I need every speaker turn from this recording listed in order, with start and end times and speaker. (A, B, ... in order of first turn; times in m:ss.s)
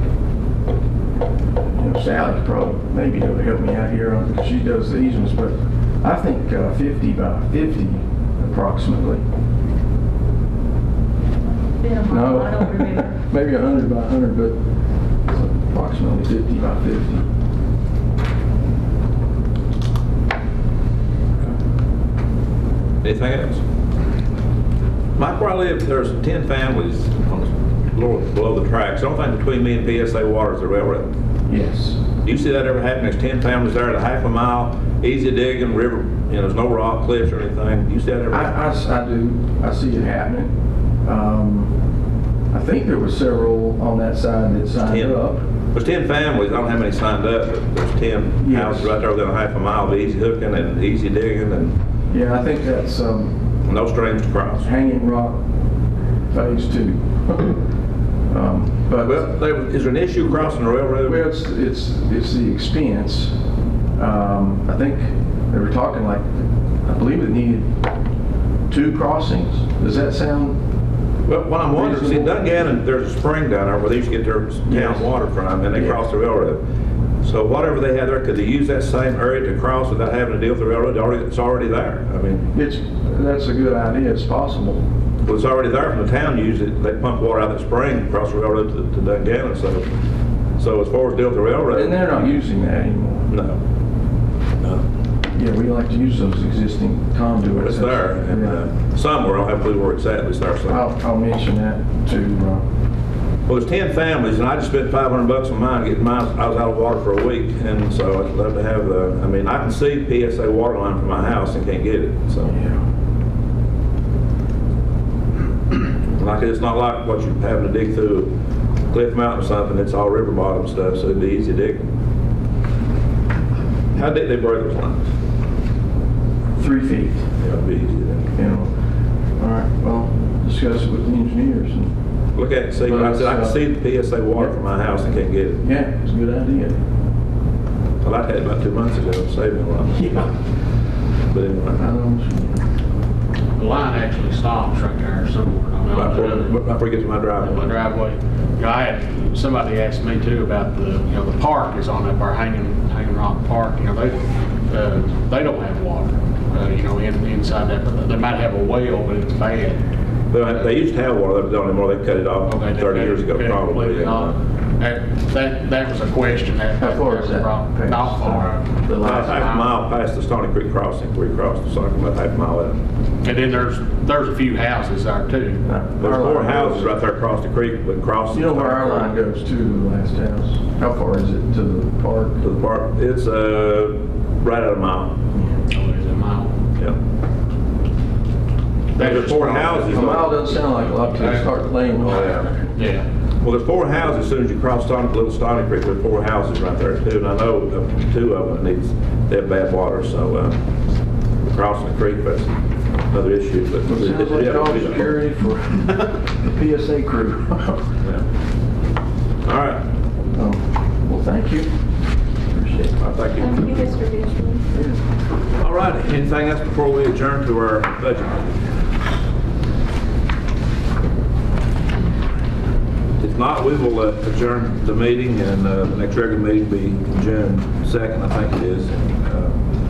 0:01.7-0:09.2 A
0:11.8-0:13.2 B
0:12.0-0:14.6 A
0:15.3-0:17.2 A
0:23.0-0:23.6 C
0:25.2-0:31.1 C
0:31.5-0:32.0 A
0:32.2-0:38.5 C
0:38.3-0:40.5 A
0:41.0-0:41.7 A
0:42.5-0:45.4 A
0:44.8-0:45.2 C
0:45.7-0:51.8 C
0:48.4-0:48.9 A
0:52.1-0:53.4 A
0:53.6-0:54.7 C
0:54.6-0:55.4 A
0:56.3-0:57.6 A
0:58.3-0:59.3 A
0:59.0-1:01.3 C
1:01.0-1:03.3 A
1:04.0-1:07.7 A
1:08.7-1:10.6 A
1:11.2-1:16.6 C
1:11.7-1:12.6 A
1:14.7-1:15.0 A
1:15.7-1:16.0 A
1:17.2-1:22.5 C
1:22.5-1:24.8 A
1:25.2-1:29.9 C
1:30.6-1:32.3 C
1:31.7-1:33.3 A
1:33.3-1:33.6 C
1:35.3-1:38.6 A
1:37.6-1:40.8 C
1:40.7-1:42.6 A
1:43.5-1:52.5 C
1:52.5-1:52.8 A
1:56.1-1:58.3 C
1:58.9-2:01.9 C
2:03.9-2:05.0 C
2:06.6-2:07.3 A
2:07.4-2:08.3 C
2:08.3-2:08.7 A
2:09.4-2:11.9 A
2:12.3-2:15.6 C
2:12.8-2:13.6 A
2:15.6-2:16.8 A
2:18.0-2:20.3 C
2:20.0-2:20.3 A
2:21.3-2:21.9 C
2:21.7-2:22.6 A
2:23.6-2:26.5 D
2:25.9-2:27.7 C
2:27.4-2:39.8 D
2:40.3-2:44.4 C
2:42.5-2:49.7 D
2:46.8-2:49.5 A
2:49.0-2:52.8 C
2:53.2-2:55.6 D
2:55.6-2:56.9 A
2:56.0-2:59.1 C
2:58.3-3:02.4 A
3:02.4-3:05.2 C
3:05.7-3:06.6 D
3:08.9-3:10.0 D
3:09.0-3:10.4 C
3:09.8-3:12.5 A
3:10.9-3:13.0 D
3:13.4-3:20.6 C
3:21.4-3:22.5 C
3:23.1-3:25.2 C
3:23.8-3:27.8 A
3:29.4-3:29.8 C
3:30.3-3:31.7 A
3:32.5-3:32.9 A
3:33.0-3:33.8 C
3:33.4-3:34.6 B
3:34.7-3:35.0 A
3:35.6-3:38.6 C
3:43.2-3:49.6 C